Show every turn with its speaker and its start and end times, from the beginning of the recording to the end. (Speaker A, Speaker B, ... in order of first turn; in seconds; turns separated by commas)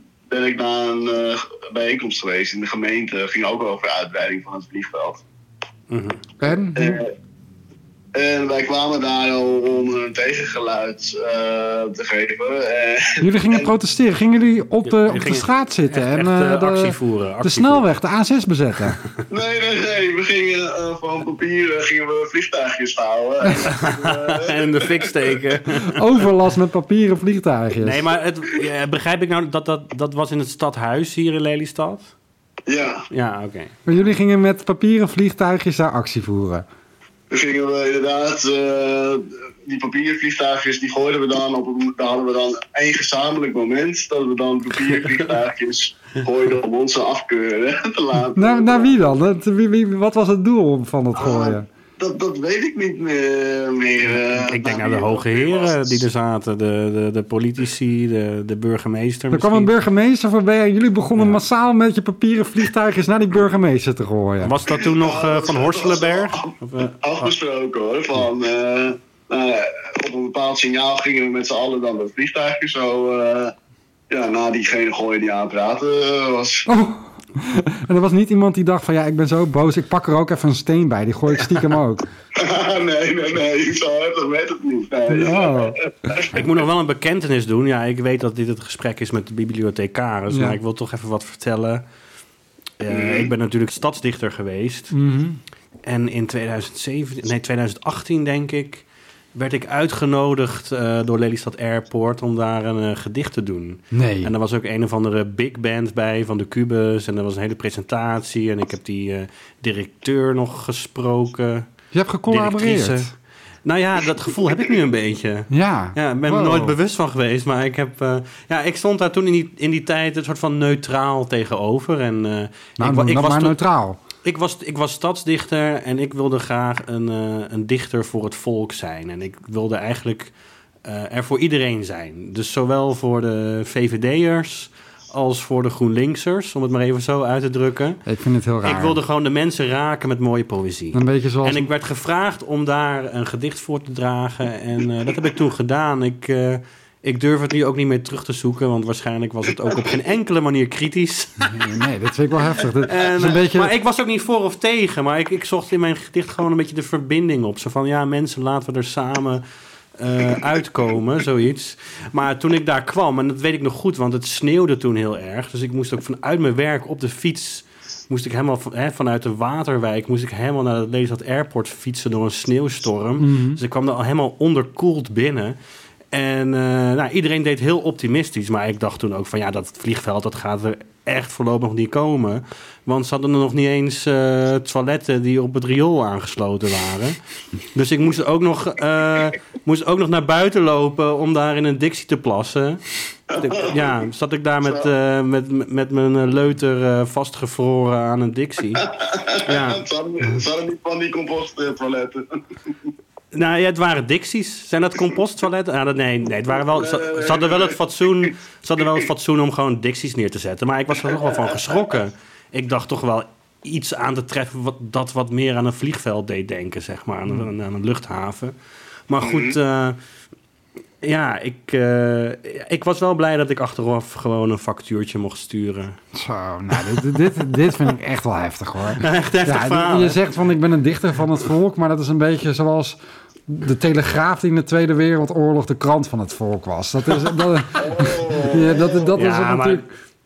Speaker A: 0.3-5.2, Speaker B: 5.9-6.2, Speaker C: 6.4-7.0, Speaker A: 6.8-7.1, Speaker A: 8.1-13.7, Speaker C: 13.2-19.0, Speaker B: 14.9-17.9, Speaker A: 19.3-25.3, Speaker B: 23.6-26.0, Speaker C: 25.9-28.0, Speaker B: 27.8-32.1, Speaker A: 32.7-33.1, Speaker B: 33.1-33.8, Speaker C: 33.9-36.6, Speaker A: 37.3-49.1, Speaker C: 48.4-51.7, Speaker A: 51.2-56.0, Speaker B: 54.2-59.7, Speaker C: 59.3-64.6, Speaker B: 64.4-67.3, Speaker A: 64.8-73.5, Speaker A: 74.1-76.7, Speaker C: 76.7-82.1, Speaker A: 82.4-86.4, Speaker C: 85.1-85.8, Speaker B: 86.2-91.8, Speaker C: 90.3-90.6, Speaker B: 92.8-94.9, Speaker A: 92.9-93.3, Speaker C: 94.9-95.4, Speaker B: 95.8-111.7, Speaker C: 103.9-104.3, Speaker C: 111.9-113.1, Speaker B: 112.3-113.1, Speaker B: 113.7-123.6, Speaker C: 115.5-116.8, Speaker C: 122.8-124.0, Speaker B: 124.2-130.3, Speaker B: 130.8-138.0, Speaker C: 138.1-139.0, Speaker B: 138.6-151.7, Speaker C: 140.9-141.7, Speaker C: 151.4-153.7, Speaker B: 152.8-159.4, Speaker B: 160.0-175.6, Speaker C: 173.2-173.6, Speaker B: 176.1-187.2, Speaker B: 187.7-198.9, Speaker A: 193.3-193.9, Speaker A: 194.6-194.9, Speaker A: 198.8-202.7, Speaker B: 199.4-199.8, Speaker B: 203.3-218.5, Speaker A: 206.7-207.8, Speaker A: 211.0-211.8, Speaker B: 219.1-220.0, Speaker A: 219.2-219.6, Speaker B: 221.0-226.0, Speaker C: 226.1-239.8, Speaker B: 229.0-230.2, Speaker A: 237.7-239.2, Speaker B: 239.2-239.9